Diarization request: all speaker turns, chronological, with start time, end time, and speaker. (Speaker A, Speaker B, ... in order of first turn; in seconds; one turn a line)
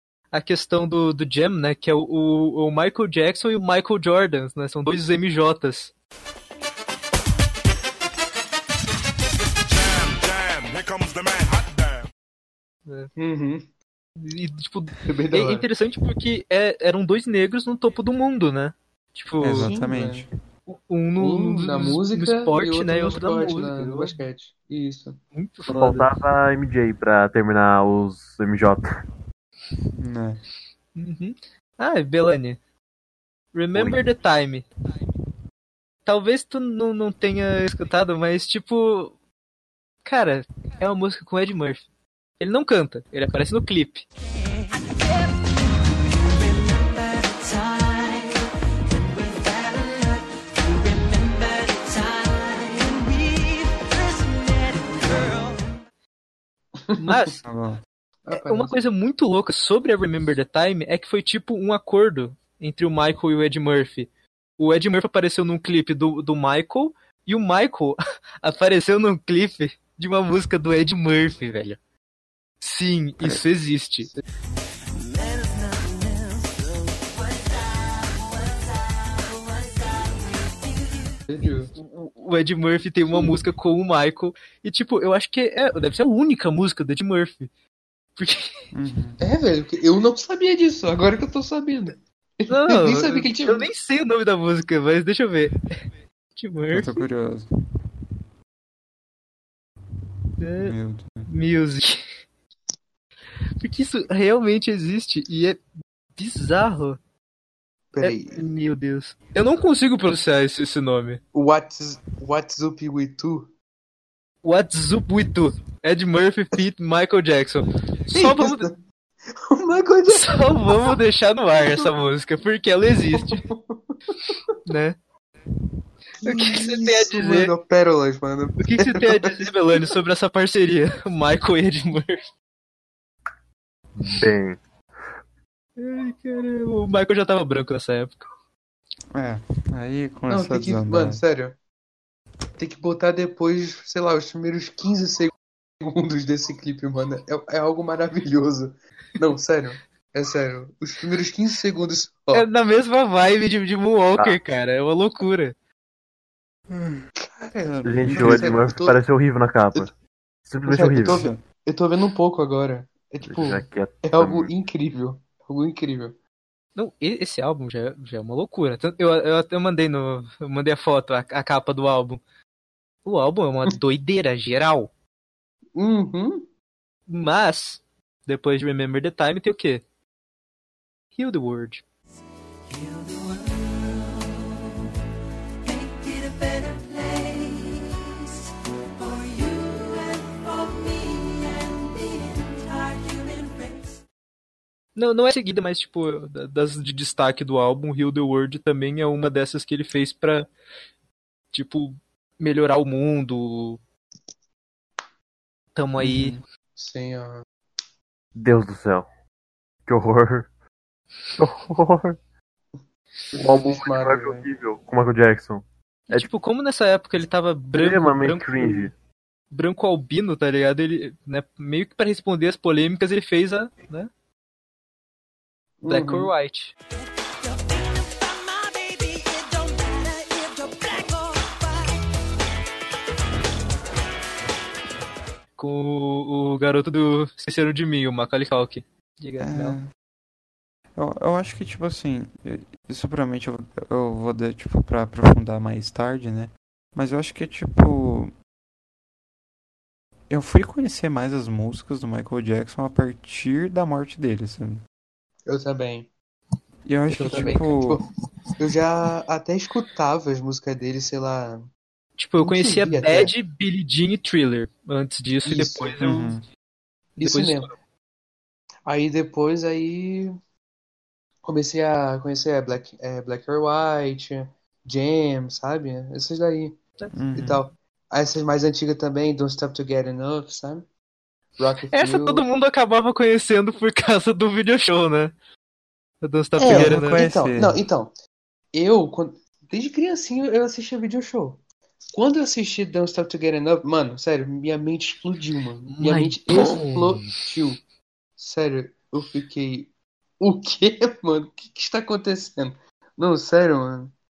Speaker A: 0.3-5.9
Speaker A: 12.9-13.1
Speaker B: 13.2-13.7
Speaker A: 14.2-19.7
Speaker B: 15.0-15.7
Speaker C: 19.4-20.3
Speaker B: 19.6-20.3
Speaker A: 20.7-24.2
Speaker B: 21.2-25.2
Speaker A: 25.3-26.1
Speaker D: 25.7-28.9
Speaker C: 30.0-30.4
Speaker A: 30.9-32.6
Speaker A: 33.5-34.7
Speaker D: 33.7-34.0
Speaker A: 36.1-39.1
Speaker A: 40.0-41.9
Speaker A: 42.4-44.0
Speaker E: 44.7-45.5
Speaker E: 46.1-48.3
Speaker E: 49.0-55.6
Speaker B: 56.8-57.4
Speaker A: 57.0-57.4
Speaker C: 57.5-57.8
Speaker B: 58.2-58.7
Speaker A: 58.3-71.8
Speaker A: 72.6-74.1
Speaker E: 75.1-76.5
Speaker E: 77.2-78.6
Speaker E: 79.2-80.7
Speaker B: 81.3-81.7
Speaker A: 81.8-87.5
Speaker B: 83.1-83.4
Speaker A: 88.2-88.5
Speaker C: 88.7-89.2
Speaker B: 89.2-93.7
Speaker A: 92.5-95.7
Speaker A: 96.4-97.0
Speaker C: 96.7-97.5
Speaker A: 100.4-100.8
Speaker C: 100.5-101.3
Speaker A: 101.3-102.0
Speaker A: 103.6-105.6
Speaker A: 106.2-107.0
Speaker B: 107.9-108.4
Speaker A: 108.0-111.2
Speaker B: 111.3-113.5
Speaker A: 114.4-118.7
Speaker B: 118.1-118.8
Speaker B: 119.3-120.9
Speaker A: 120.1-123.4
Speaker B: 121.6-121.9
Speaker B: 123.1-124.5
Speaker A: 124.7-125.0
Speaker B: 126.2-129.9
Speaker A: 126.2-127.5
Speaker A: 128.6-132.3
Speaker D: 134.0-134.6
Speaker A: 135.8-138.3
Speaker C: 139.1-141.2
Speaker B: 140.3-141.6
Speaker B: 142.6-152.5
Speaker A: 152.3-155.6
Speaker C: 156.7-157.1
Speaker B: 157.2-159.0
Speaker C: 157.6-158.7
Speaker D: 157.8-159.9
Speaker D: 160.5-161.2
Speaker B: 160.7-166.2
Speaker C: 161.0-161.4
Speaker D: 163.2-164.5
Speaker A: 166.8-172.2
Speaker A: 173.1-174.9
Speaker B: 175.8-176.5
Speaker A: 177.1-179.8
Speaker A: 181.2-181.8
Speaker E: 182.7-184.5
Speaker E: 185.6-194.0
Speaker A: 195.0-200.5
Speaker A: 201.5-203.8
Speaker A: 205.8-206.4
Speaker C: 206.0-206.4
Speaker B: 206.8-207.4
Speaker D: 208.4-209.1
Speaker D: 209.9-210.5
Speaker D: 211.4-212.2
Speaker B: 213.3-214.5
Speaker D: 213.3-216.3
Speaker A: 216.1-218.9
Speaker D: 217.7-218.9
Speaker A: 219.5-224.1
Speaker B: 225.8-226.3
Speaker A: 225.9-226.7
Speaker E: 227.4-232.0
Speaker A: 235.6-239.8
Speaker C: 239.4-239.9
Speaker C: 241.0-248.3
Speaker C: 250.3-254.8
Speaker B: 255.5-256.1
Speaker C: 256.9-258.0
Speaker B: 257.1-258.1
Speaker B: 258.6-261.7
Speaker A: 262.2-266.4
Speaker B: 262.4-263.3
Speaker B: 265.5-266.1
Speaker C: 266.0-266.4
Speaker A: 267.2-267.7
Speaker B: 267.2-267.8
Speaker B: 268.9-270.3
Speaker B: 271.4-276.8
Speaker C: 277.1-277.7
Speaker B: 277.3-280.9
Speaker B: 281.6-282.4
Speaker A: 281.9-285.3
Speaker A: 286.2-287.2
Speaker B: 286.6-288.2
Speaker C: 286.6-287.8
Speaker B: 288.7-291.6
Speaker B: 292.1-297.8
Speaker A: 295.9-297.3
Speaker B: 298.4-304.1